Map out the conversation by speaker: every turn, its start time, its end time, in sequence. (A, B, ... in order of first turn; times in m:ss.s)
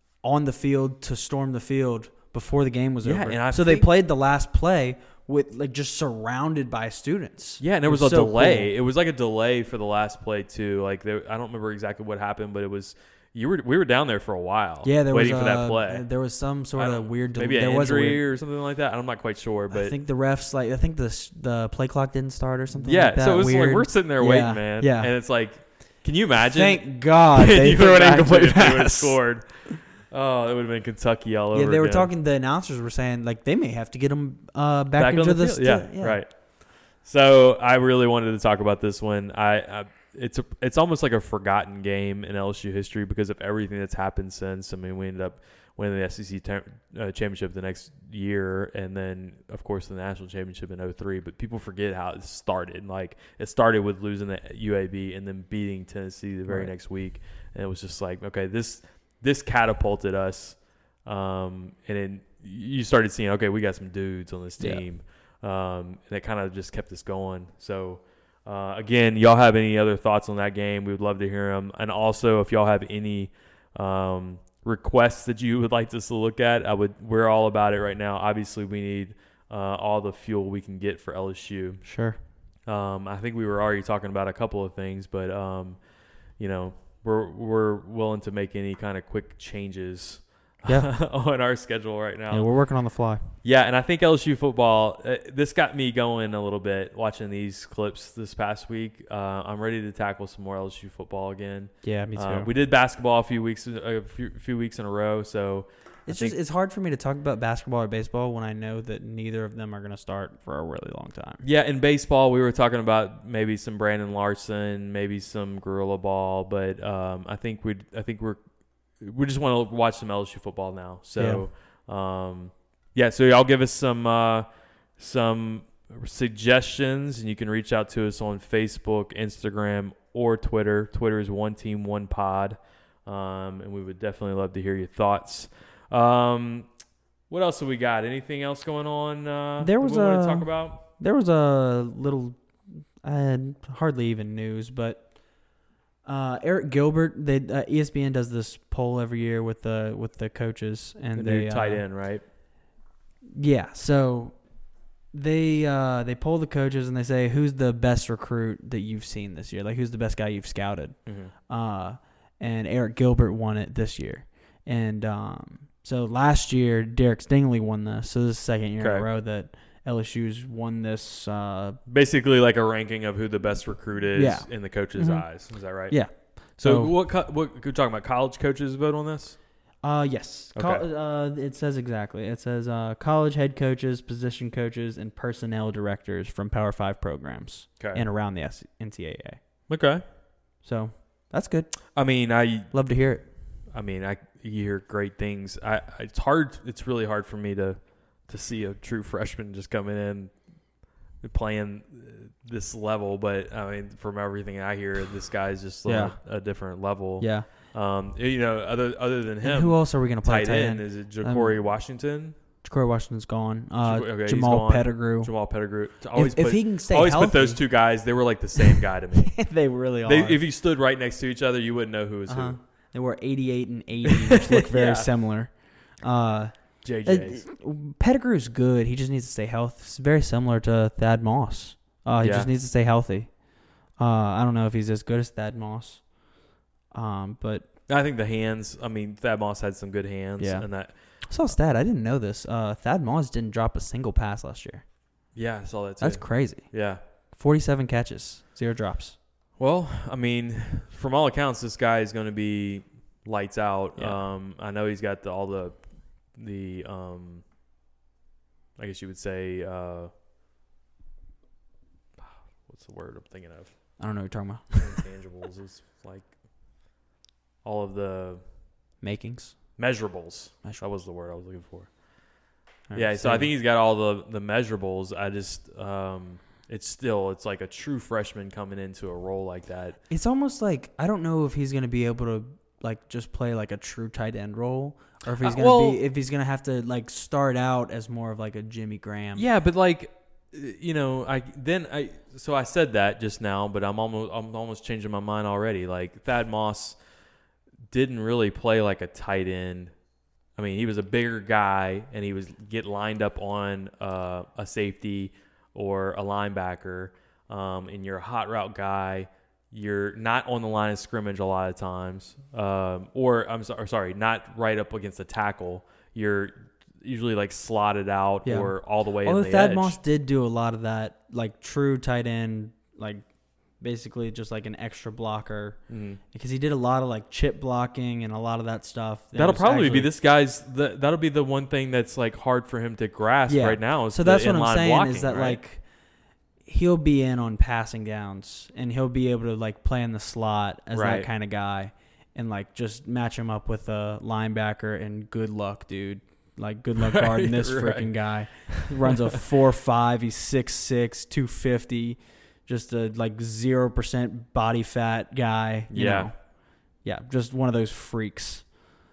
0:00.2-0:08.7 A
0:03.0-0:03.9 B
0:07.6-0:16.1 B
0:14.8-0:18.2 A
0:16.8-0:20.0 B
0:19.7-0:25.1 A
0:22.8-0:32.1 B
0:26.4-0:29.7 A
0:31.5-0:36.2 A
0:35.0-1:21.8 B
0:56.5-0:56.7 A
1:04.6-1:04.8 A
1:21.8-1:22.2 A
1:22.7-1:25.8 B
1:26.4-1:32.5 B
1:32.3-1:33.3 A
1:33.4-1:46.4 B
1:41.8-1:42.5 A
1:46.1-1:51.4 A
1:51.4-1:58.4 B
1:59.0-2:04.5 B
2:01.2-2:01.5 A
2:05.0-2:16.7 B
2:17.3-2:20.8 B
2:19.6-2:25.4 A
2:26.0-2:31.8 A
2:31.2-2:32.2 B
2:33.3-2:34.6 A
2:35.1-2:51.8 A
2:41.1-2:41.3 B
2:48.8-2:49.1 B
2:51.9-2:56.0 B
2:54.1-2:56.9 A
2:56.6-2:59.4 B
2:59.8-3:09.4 A
3:00.6-3:00.8 B
3:09.7-3:10.0 B
3:10.6-3:11.7 A
3:12.0-3:12.7 B
3:12.7-3:13.3 A
3:13.7-3:20.3 B
3:21.2-3:32.4 B
3:25.9-3:26.2 A
3:27.2-3:27.5 A
3:29.4-3:31.6 A
3:32.6-3:35.3 A
3:33.8-3:39.4 B
3:36.2-3:37.6 A
3:38.6-3:40.4 A
3:40.0-3:42.6 B
3:42.3-3:56.2 A
3:44.0-3:45.1 B
3:46.8-3:47.4 B
3:52.2-3:52.5 B
3:56.9-3:57.7 A
3:57.9-4:01.0 B
4:00.4-4:00.7 A
4:01.2-4:04.8 A
4:05.4-4:07.0 B
4:06.0-4:06.7 A
4:07.3-4:09.2 A
4:09.6-4:15.8 B
4:16.3-4:17.4 B
4:18.8-4:20.1 B
4:22.2-4:23.7 B
4:24.0-4:25.0 A
4:24.8-4:26.3 B
4:27.6-4:28.4 B
4:29.0-4:29.7 A
4:29.8-4:31.9 B
4:32.9-4:33.5 A
4:33.0-4:40.0 B
4:40.1-4:49.5 A
4:45.4-4:46.0 B
4:49.4-4:57.0 B
4:57.9-4:59.9 B
5:00.6-5:20.0 B
5:18.4-5:23.3 A
5:23.8-5:25.8 A
5:25.9-5:26.2 B
5:26.3-5:30.1 A
5:29.4-5:35.6 B
5:33.5-5:35.8 A
5:36.7-5:56.4 A
5:40.9-5:41.3 B
5:47.0-5:48.2 B
5:48.7-5:49.4 B
5:55.9-5:56.3 B
5:57.0-5:58.7 A